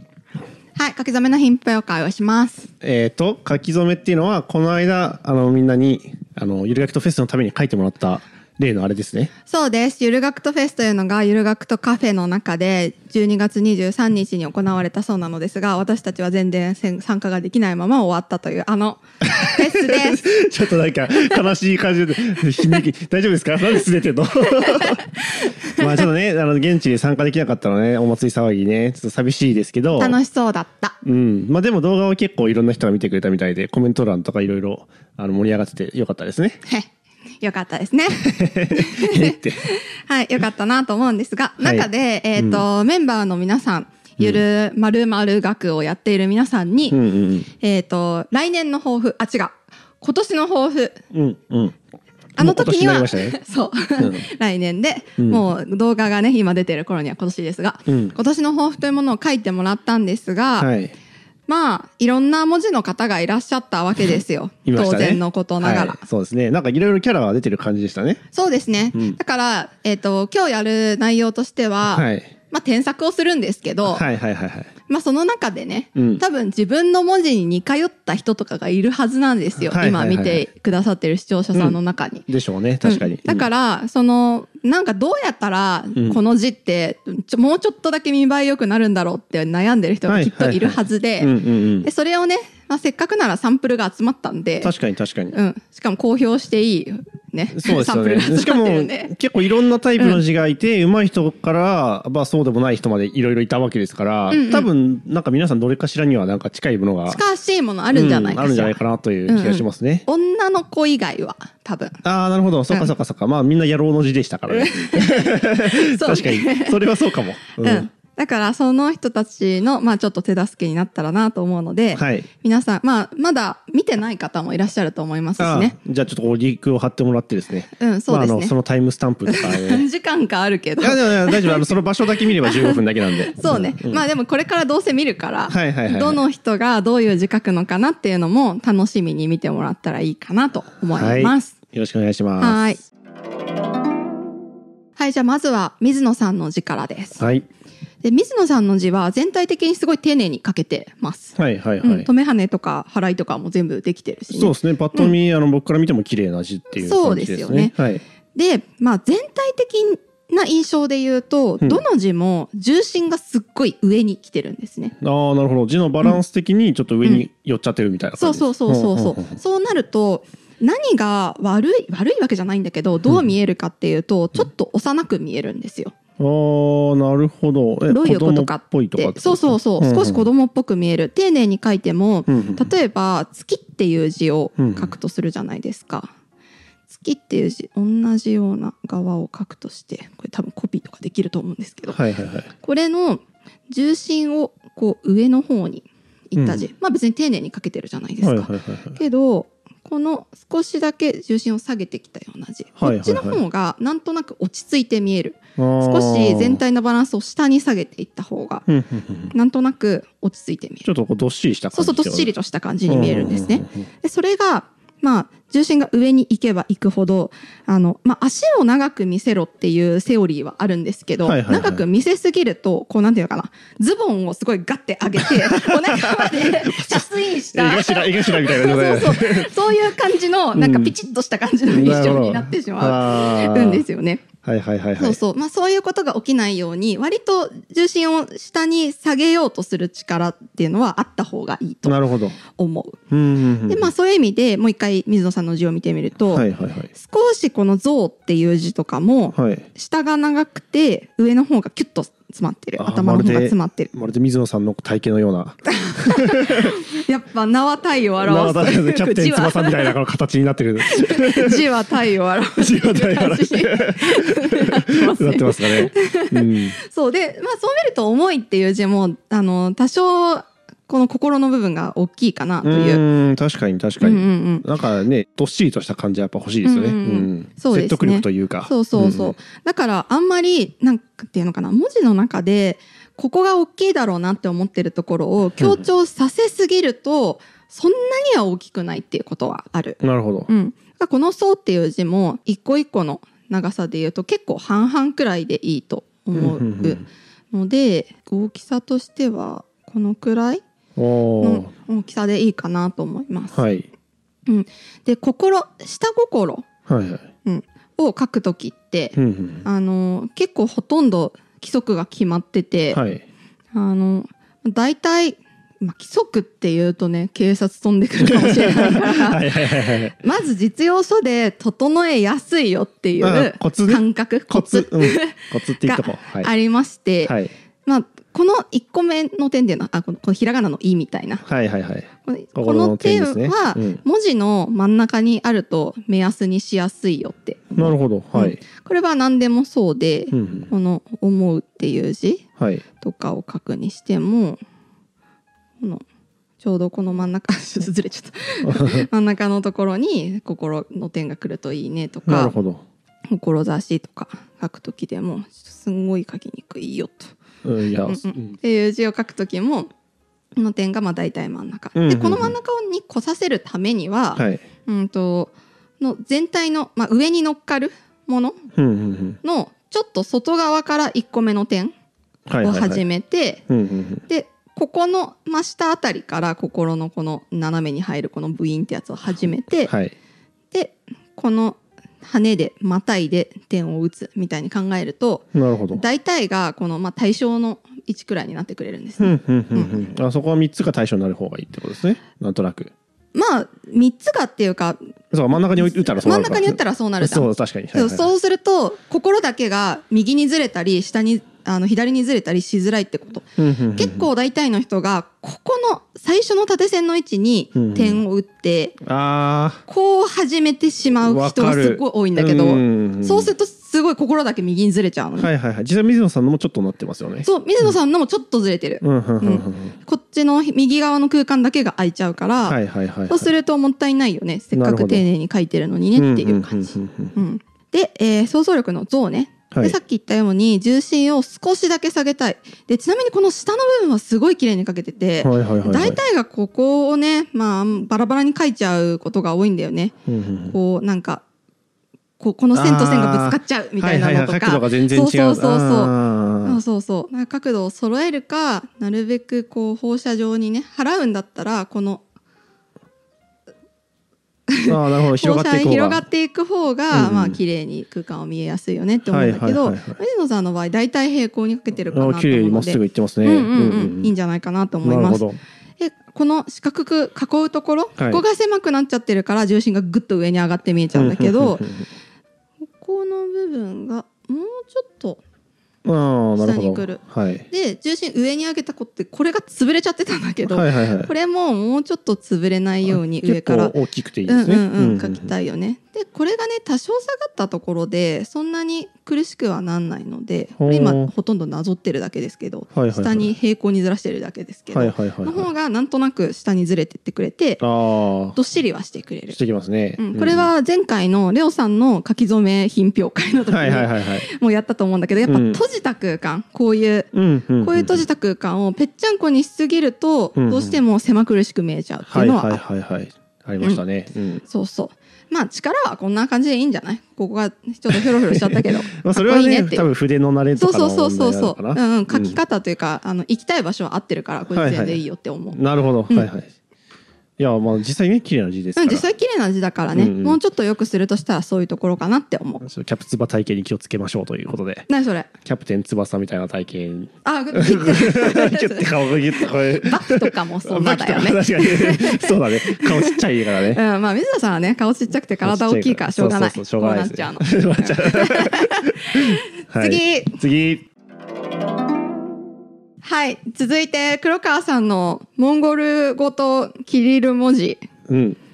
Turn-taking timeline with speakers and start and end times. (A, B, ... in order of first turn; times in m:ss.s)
0:00.8-0:02.7 A
0:02.8-0:09.3 B
0:09.5-0:20.2 A
0:19.3-0:30.2 B
0:24.5-0:26.1 A
0:30.0-0:31.0 A
0:31.0-0:36.6 B
0:36.6-0:47.0 A
0:38.2-0:39.7 B
0:41.6-0:42.6 B
0:46.9-0:47.5 B
0:47.6-0:51.0 A
0:51.1-0:51.8 B
0:52.4-0:53.4 B
0:52.4-1:00.7 A
0:54.0-0:54.2 B
0:57.9-0:58.1 B
1:00.6-1:00.9 B
1:01.5-1:06.0 A
1:04.6-1:08.2 B
1:08.3-1:14.0 A
1:11.8-1:12.3 B
1:13.8-1:14.7 B
1:14.9-1:22.3 A
1:16.0-1:16.2 B
1:19.6-1:20.5 B
1:22.3-1:23.5 B
1:22.8-1:34.7 A
1:30.1-1:31.9 B
1:34.6-1:35.4 B
1:35.3-1:39.1 A
1:37.5-1:47.2 B
1:44.3-1:44.7 A
1:47.1-1:52.0 A
1:47.9-1:50.1 B
1:52.0-1:57.9 B
1:54.5-1:56.8 A
1:57.6-2:05.8 A
2:02.0-2:02.3 B
2:05.4-2:09.8 B
2:07.8-2:08.5 A
2:09.3-2:11.7 A
2:10.8-2:14.0 B
2:12.4-2:21.6 A
2:15.5-2:16.2 B
2:20.9-2:22.8 B
2:22.4-2:22.8 A
2:25.0-2:27.2 A
2:27.2-2:27.5 B
2:28.0-2:35.1 A
2:31.4-2:32.1 B
2:34.3-2:38.0 B
2:36.8-2:37.7 A
2:38.4-2:45.0 A
2:45.0-2:49.2 B
2:48.2-2:56.0 A
2:56.2-3:00.3 B
2:57.9-3:06.1 A
3:02.3-3:02.7 B
3:04.6-3:04.9 B
3:06.9-3:12.0 A
3:11.9-3:12.5 B
3:12.6-3:28.6 A
3:16.4-3:16.7 B
3:18.2-3:19.0 B
3:22.8-3:23.4 B
3:25.6-3:26.6 B
3:28.7-3:29.3 B
3:29.3-3:30.9 A
3:30.8-3:32.3 B
3:31.7-3:54.3 A
3:32.9-3:33.9 B
3:41.2-3:41.8 B
3:45.2-3:49.6 B
3:50.6-3:50.9 B
3:51.7-3:53.8 B
3:54.4-3:55.2 B
3:55.0-4:03.0 A
4:01.8-4:02.4 B
4:03.1-4:03.9 B
4:03.7-4:13.9 A
4:06.3-4:06.9 B
4:09.3-4:09.7 B
4:12.8-4:16.8 B
4:15.7-4:19.9 A
4:18.2-4:21.7 B
4:20.9-4:33.0 A
4:22.6-4:26.8 B
4:32.6-4:39.4 B
4:34.0-4:34.6 A
4:36.6-5:00.6 A
4:50.0-4:50.5 B
4:56.3-4:57.1 B
5:01.0-5:01.7 B
5:01.4-5:03.6 A
5:03.5-5:03.9 B
5:04.5-5:06.7 A
5:06.9-5:07.3 B
5:07.4-5:13.0 A
5:09.2-5:09.6 B
5:12.9-5:13.2 B
5:13.7-5:27.3 A
5:18.2-5:20.2 B
5:23.2-5:26.5 B
5:27.2-5:27.5 B
5:27.9-5:31.4 A
5:31.4-5:34.0 B
5:32.3-5:42.4 A
5:37.7-5:38.6 B
5:40.3-5:40.7 B
5:42.6-5:42.8 B
5:43.0-5:44.6 A
5:46.6-5:52.6 A
5:48.6-5:49.1 B
5:52.2-5:52.8 B
5:53.3-5:57.4 A
5:57.6-5:58.6 B
5:58.1-5:59.9 A
6:00.6-6:08.6 A
6:02.0-6:02.5 B
6:04.4-6:04.6 B
6:08.8-6:09.4 B
6:09.4-6:11.9 A
6:12.5-6:13.0 B
6:12.6-6:13.6 A
6:13.7-6:14.2 B
6:14.3-6:19.9 A
6:19.9-6:20.1 B
6:20.7-6:30.0 A
6:25.5-6:26.0 B
6:29.2-6:32.9 B
6:33.3-6:49.0 A
6:35.3-6:38.3 B
6:43.6-6:44.3 B
6:47.8-6:48.2 B
6:49.0-6:49.8 B
6:49.9-6:55.5 A
6:51.2-6:53.5 B
6:55.4-6:57.9 B
6:57.4-7:02.8 A
6:59.0-7:00.0 B
7:02.7-7:03.5 B
7:03.3-7:20.1 A
7:04.7-7:05.3 B
7:06.2-7:07.3 B
7:09.7-7:10.0 B
7:15.4-7:16.2 B
7:20.3-7:20.8 B
7:20.7-7:21.4 A
7:22.4-7:32.2 A
7:22.7-7:26.8 B
7:34.7-7:45.4 A
7:34.9-7:36.2 B
7:37.1-7:37.6 B
7:39.3-7:40.2 B
7:42.1-7:44.3 B
7:45.0-7:45.6 B
7:46.0-7:51.9 A
7:48.2-7:48.4 B
7:51.1-7:52.0 B
7:53.0-7:55.4 A
7:56.0-7:57.7 B
7:56.6-8:04.0 A
8:00.7-8:01.3 B
8:03.0-8:05.5 B
8:04.5-8:17.8 A
8:10.8-8:11.3 B
8:12.9-8:13.5 B
8:14.9-8:15.7 B
8:17.8-8:18.6 B
8:18.5-8:19.6 A
8:19.5-8:20.7 B
8:20.2-8:27.3 A
8:23.7-8:24.5 B
8:25.5-8:25.8 B
8:27.3-8:28.2 B
8:27.8-8:32.8 A
8:30.6-8:31.0 B
8:32.3-8:34.6 B
8:34.7-8:40.1 A
8:38.1-8:42.6 B
8:40.8-8:46.5 A
8:44.7-8:45.2 B
8:45.7-8:46.7 B
8:47.6-8:49.3 B
8:49.0-8:52.8 A
8:50.2-8:50.6 B
8:52.8-8:55.1 B
8:55.1-8:55.5 A
8:55.6-9:04.0 B
8:57.4-9:10.6 A
9:05.6-9:11.1 B
9:13.2-9:18.0 A
9:18.3-9:18.6 B